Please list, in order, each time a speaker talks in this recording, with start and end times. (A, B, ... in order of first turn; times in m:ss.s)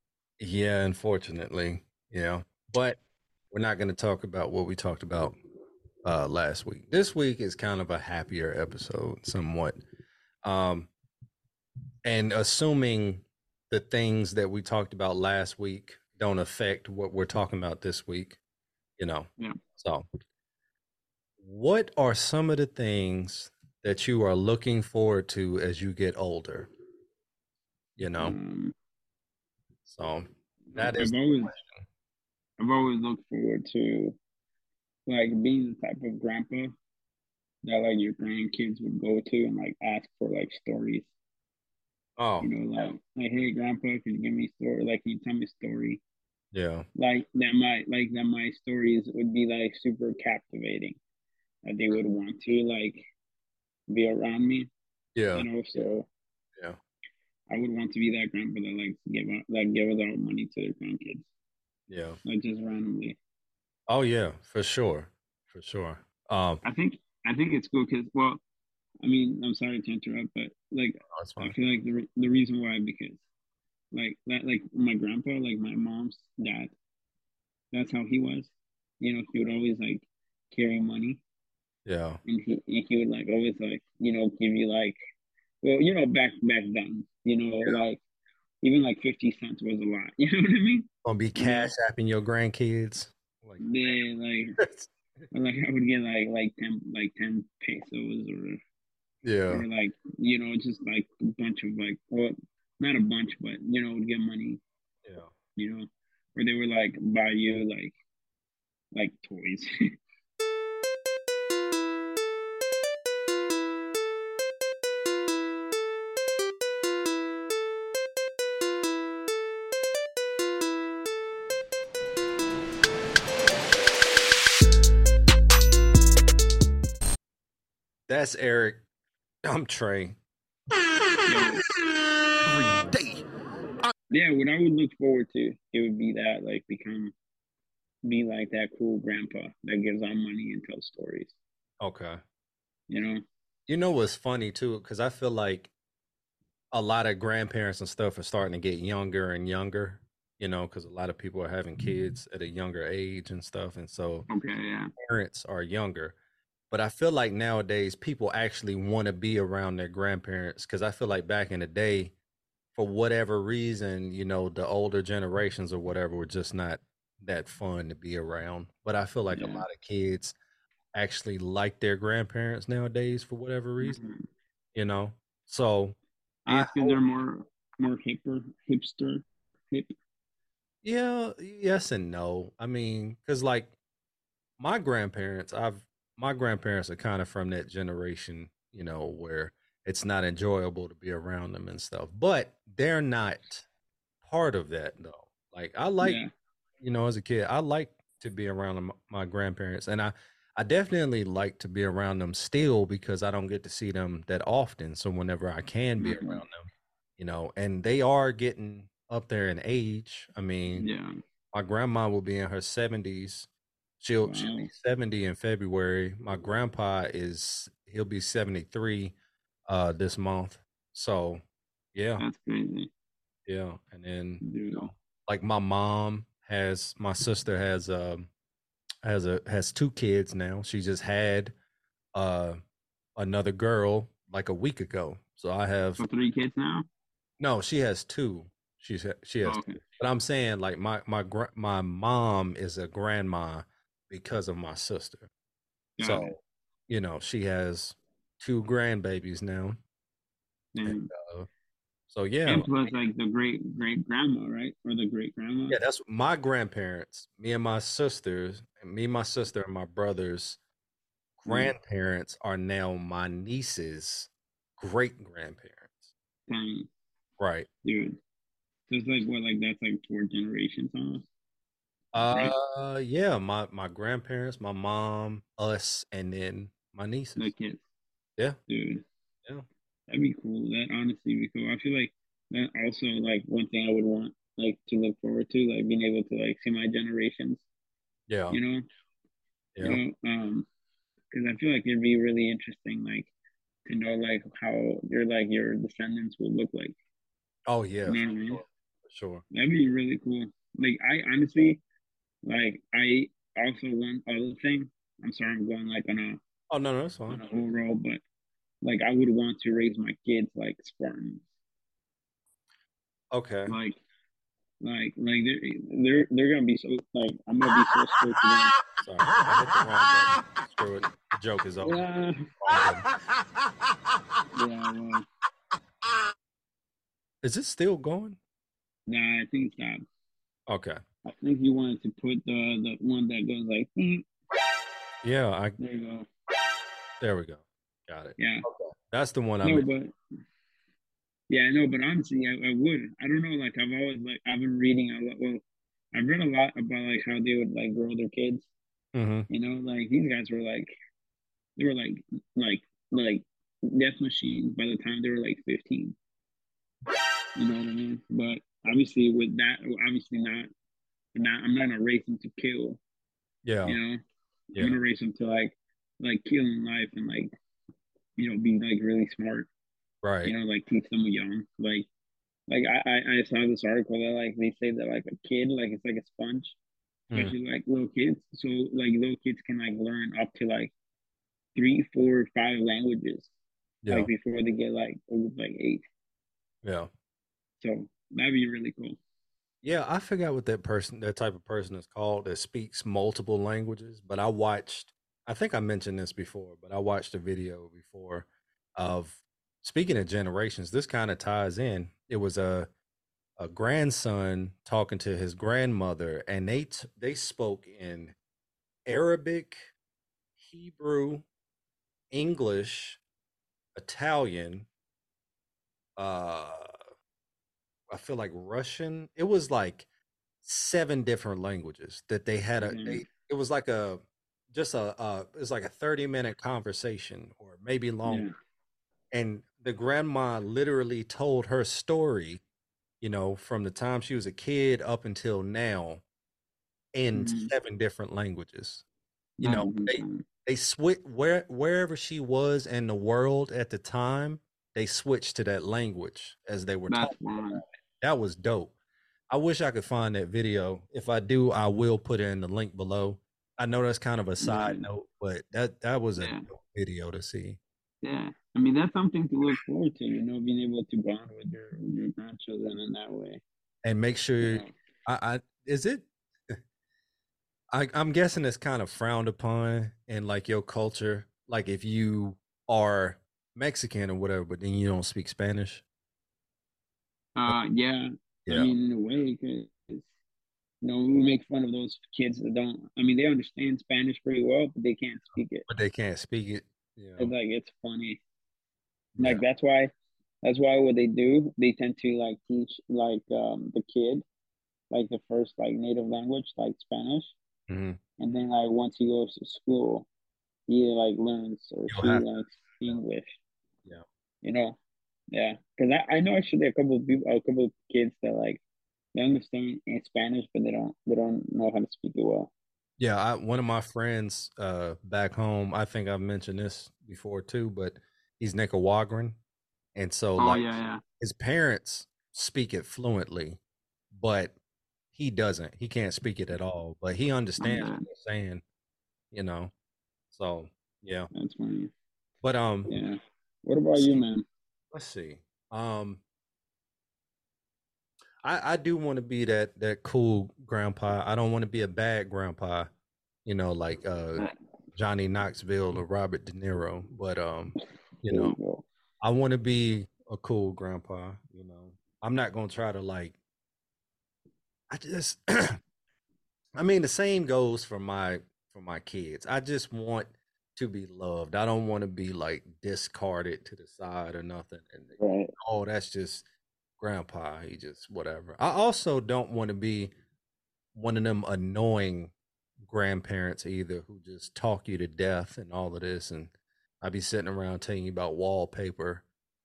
0:00.4-0:03.0 A
0:03.5-0:05.4 A
0:06.0-0:09.8 A
0:10.4-0:10.9 A
0:12.0-0:18.4 A
0:19.0-0:20.1 A
0:21.4-0:26.7 A
0:28.0-0:28.4 A
0:28.2-0:28.7 B
0:29.8-0:31.9 A
0:30.7-0:31.6 B
0:32.6-0:34.2 B
0:35.1-0:36.7 B
0:37.6-0:41.1 B
0:42.2-0:42.5 A
0:42.4-0:46.0 B
0:46.5-0:46.9 A
0:47.0-0:51.0 B
0:51.6-0:53.0 B
0:53.9-0:54.7 B
0:55.2-0:55.5 A
0:55.4-0:56.1 B
0:57.5-1:01.3 B
1:01.9-1:02.2 A
1:02.2-1:03.2 B
1:03.9-1:06.6 A
1:06.6-1:08.4 B
1:09.0-1:13.2 B
1:11.1-1:11.6 A
1:13.9-1:16.7 B
1:17.7-1:21.2 B
1:21.9-1:22.2 A
1:22.3-1:25.0 B
1:25.6-1:28.0 B
1:28.6-1:31.7 B
1:31.0-1:33.9 A
1:33.6-1:34.6 B
1:34.6-1:34.9 A
1:35.3-1:38.6 B
1:39.2-1:39.6 A
1:39.5-1:44.6 B
1:45.0-1:45.3 A
1:45.6-1:47.9 B
1:48.9-1:49.7 B
2:08.1-2:08.8 A
2:09.4-2:10.2 A
2:11.3-2:11.6 B
2:12.4-2:13.2 A
2:14.1-2:17.1 B
2:18.0-2:21.4 B
2:21.8-2:22.2 A
2:22.9-2:23.2 B
2:23.7-2:25.7 A
2:26.7-2:34.3 A
2:34.3-2:34.9 B
2:35.0-2:36.2 A
2:36.7-2:42.1 A
2:42.8-2:50.4 A
2:49.3-2:49.7 B
2:50.9-2:54.0 A
2:53.8-2:54.3 B
2:54.8-2:56.0 A
2:56.5-2:59.9 B
2:56.5-2:57.0 A
3:00.8-3:03.8 A
3:04.6-3:13.7 A
3:14.2-3:16.2 A
3:16.0-3:16.3 B
3:16.8-3:30.9 A
3:26.0-3:26.4 B
3:30.7-3:31.1 B
3:31.5-3:33.5 A
3:34.0-3:39.2 A
3:34.2-3:34.7 B
3:39.7-3:41.4 A
3:41.9-3:42.2 A
3:42.2-3:42.9 B
3:43.5-3:48.3 A
3:44.4-3:44.9 B
3:49.0-3:51.5 A
3:52.1-3:52.6 A
3:53.2-3:56.0 A
3:56.0-3:56.9 B
3:57.4-4:05.3 A
3:59.4-3:59.8 B
4:06.0-4:06.3 B
4:06.0-4:09.8 A
4:10.8-4:11.1 B
4:10.8-4:11.5 A
4:12.1-4:12.7 A
4:12.5-4:15.8 B
4:15.7-4:20.6 A
4:21.4-4:26.1 A
4:21.5-4:21.7 B
4:26.5-4:26.9 B
4:27.4-4:27.7 A
4:27.8-4:28.2 B
4:28.9-4:31.3 B
4:32.1-4:37.5 A
4:32.2-4:32.5 B
4:37.4-4:37.8 B
4:38.7-4:39.0 B
4:40.1-4:47.6 B
4:48.3-4:48.6 A
4:48.5-4:48.8 B
4:49.8-4:50.0 A
4:49.8-4:50.7 B
4:51.3-4:53.3 B
4:53.9-4:57.0 B
4:57.7-4:59.4 A
4:58.0-4:58.6 B
4:59.5-5:01.8 B
5:02.4-5:06.4 B
5:06.7-5:07.4 A
5:07.3-5:08.2 B
5:08.8-5:11.4 B
5:13.3-5:13.8 A
5:13.7-5:14.0 B
5:14.8-5:18.8 B
5:19.0-5:22.1 A
5:21.8-5:22.5 B
5:22.6-5:23.1 A
5:24.5-5:25.3 B
5:27.4-5:28.4 A
5:29.1-5:30.0 B
5:30.7-5:31.0 A
5:31.2-5:34.3 B
5:35.2-5:35.8 A
5:35.8-5:36.3 B
5:37.2-5:39.9 A
5:38.4-5:38.7 B
5:39.6-5:40.1 B
5:41.5-5:48.7 B
5:49.1-5:49.5 A
5:49.5-5:50.9 B
5:51.8-5:56.2 B
5:57.6-6:00.7 B
6:01.4-6:03.0 B
6:03.6-6:04.0 A
6:03.8-6:04.2 B
6:04.8-6:07.5 B
6:08.4-6:09.7 B
6:10.2-6:10.5 A
6:10.4-6:12.1 B
6:12.7-6:16.8 B
6:17.3-6:20.9 B
6:21.8-6:23.5 B
6:24.0-6:24.3 A
6:24.1-6:26.0 B
6:26.8-6:27.1 A
6:27.8-6:29.2 B
6:29.8-6:42.9 A
6:43.6-6:48.4 A
6:49.1-6:49.9 A
6:50.6-6:51.4 A
6:52.3-6:53.2 A
6:54.0-6:54.9 A
6:56.2-6:56.9 A
6:58.1-7:00.1 A
7:00.6-7:04.2 A
7:02.8-7:03.2 B
7:04.7-7:08.5 A
7:08.2-7:08.5 B
7:09.3-7:12.6 A
7:13.2-7:16.2 A
7:17.1-7:19.0 A
7:17.3-7:17.7 B
7:19.6-7:20.4 B
7:19.6-7:28.9 A
7:27.1-7:27.8 B
7:29.5-7:37.8 A
7:34.6-7:35.1 B
7:36.4-7:36.7 B
7:38.2-7:43.6 B
7:44.0-7:46.8 A
7:44.6-7:44.9 B
7:47.9-7:56.0 A
7:57.6-8:00.3 B
7:58.7-7:58.9 A
8:01.0-8:05.9 B
8:05.9-8:07.5 A
8:07.4-8:08.4 B
8:09.4-8:09.6 A
8:09.4-8:10.1 B
8:10.6-8:14.4 B
8:15.1-8:17.6 B
8:17.9-8:18.2 A
8:18.4-8:20.3 B
8:20.9-8:23.6 B
8:22.1-8:22.4 A
8:24.6-8:25.0 B
8:25.5-8:28.8 B
8:29.4-8:32.7 B
8:33.2-8:39.6 A
8:40.2-8:43.8 A
8:40.6-8:41.2 B
8:44.3-8:44.8 A
8:45.3-8:48.8 A
8:47.8-8:48.3 B
8:49.5-8:49.9 A
8:50.5-8:51.5 A
8:51.5-8:52.1 B
8:52.6-8:53.1 A
8:53.1-8:54.6 B
8:54.1-8:54.4 A
8:55.1-8:56.4 A
8:58.6-9:03.1 A
9:03.6-9:04.6 A
9:05.2-9:08.8 A
9:08.5-9:09.1 B
9:09.4-9:13.6 A
9:15.1-9:16.0 A
9:17.0-9:26.6 A
9:25.4-9:25.7 B
9:27.2-9:30.3 A
9:31.2-9:39.4 A